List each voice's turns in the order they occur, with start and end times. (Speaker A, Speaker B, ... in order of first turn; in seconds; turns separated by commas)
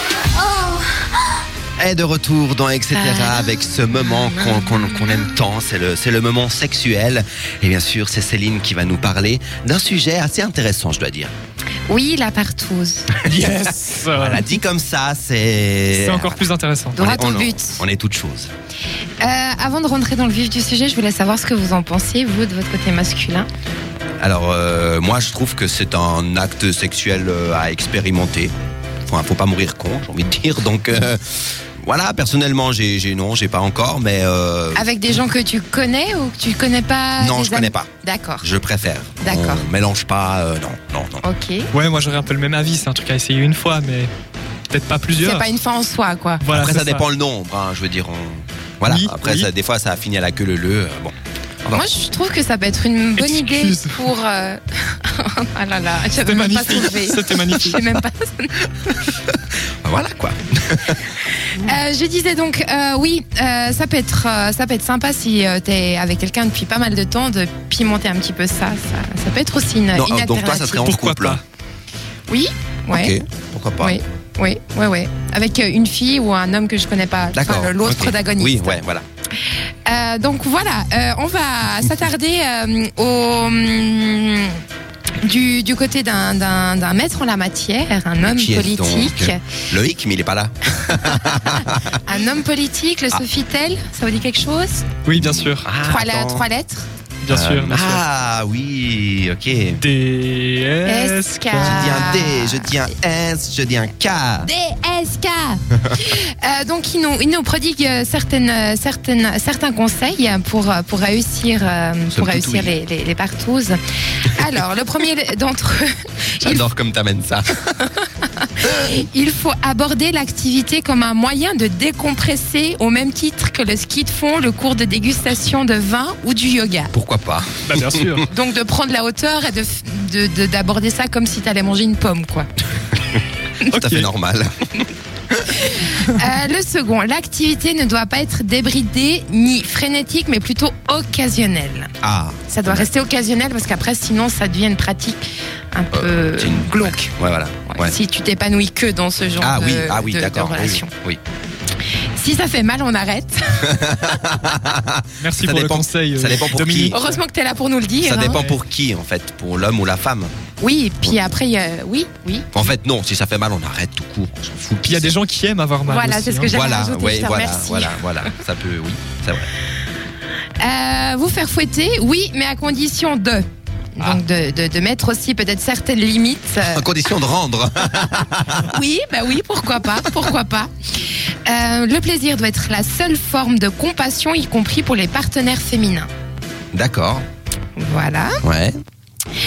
Speaker A: 1.8-11.3, Speaker B: 2.9-5.3, Speaker B: 11.9-13.2, Speaker A: 13.1-16.4, Speaker C: 13.2-14.5, Speaker C: 15.9-17.0, Speaker B: 17.0-17.8, Speaker A: 17.0-18.5, Speaker B: 19.2-23.5, Speaker A: 24.2-28.5, Speaker A: 29.1-34.9, Speaker B: 34.7-38.5, Speaker A: 37.2-37.9, Speaker A: 38.4-41.2, Speaker B: 39.2-39.6, Speaker B: 41.2-41.7, Speaker C: 41.7-44.1, Speaker C: 44.7-45.5, Speaker B: 45.2-46.5, Speaker C: 46.4-47.0, Speaker A: 46.5-51.8, Speaker C: 48.8-49.5, Speaker B: 51.7-58.5, Speaker C: 53.2-54.0, Speaker C: 56.2-57.8, Speaker A: 59.0-61.1, Speaker B: 61.5-71.0, Speaker A: 69.9-71.4, Speaker C: 70.8-71.4, Speaker B: 72.3-73.2, Speaker A: 72.9-74.0, Speaker B: 73.8-78.8, Speaker A: 77.3-79.0, Speaker B: 79.9-84.6, Speaker B: 85.2-89.4, Speaker A: 88.2-92.0, Speaker B: 90.8-94.9, Speaker C: 95.0-95.7, Speaker A: 95.2-96.5, Speaker B: 95.8-96.9, Speaker C: 97.2-98.0, Speaker A: 97.3-99.8, Speaker C: 99.7-101.9, Speaker B: 100.9-102.8, Speaker A: 101.6-104.5, Speaker B: 104.4-116.6, Speaker A: 112.1-112.7, Speaker A: 116.4-117.9, Speaker B: 118.2-126.9, Speaker A: 126.9-128.2, Speaker C: 127.7-128.3, Speaker B: 128.2-132.5, Speaker A: 133.7-135.6, Speaker C: 133.7-134.1, Speaker B: 135.5-141.9, Speaker A: 142.0-142.9, Speaker B: 142.5-145.2, Speaker B: 145.7-147.1, Speaker A: 145.9-147.9, Speaker B: 147.7-150.9, Speaker A: 149.4-151.2, Speaker B: 152.2-154.3, Speaker A: 153.7-156.9, Speaker C: 155.2-157.2, Speaker B: 156.9-158.4, Speaker A: 158.0-160.3, Speaker B: 160.6-162.7, Speaker A: 162.5-165.1, Speaker C: 164.8-166.5, Speaker B: 165.8-168.3, Speaker A: 166.5-169.5, Speaker B: 170.6-173.4, Speaker B: 173.9-176.9, Speaker A: 176.6-178.8, Speaker B: 178.7-180.7, Speaker B: 181.4-186.1, Speaker A: 186.7-187.2, Speaker B: 187.8-188.4, Speaker A: 188.4-188.8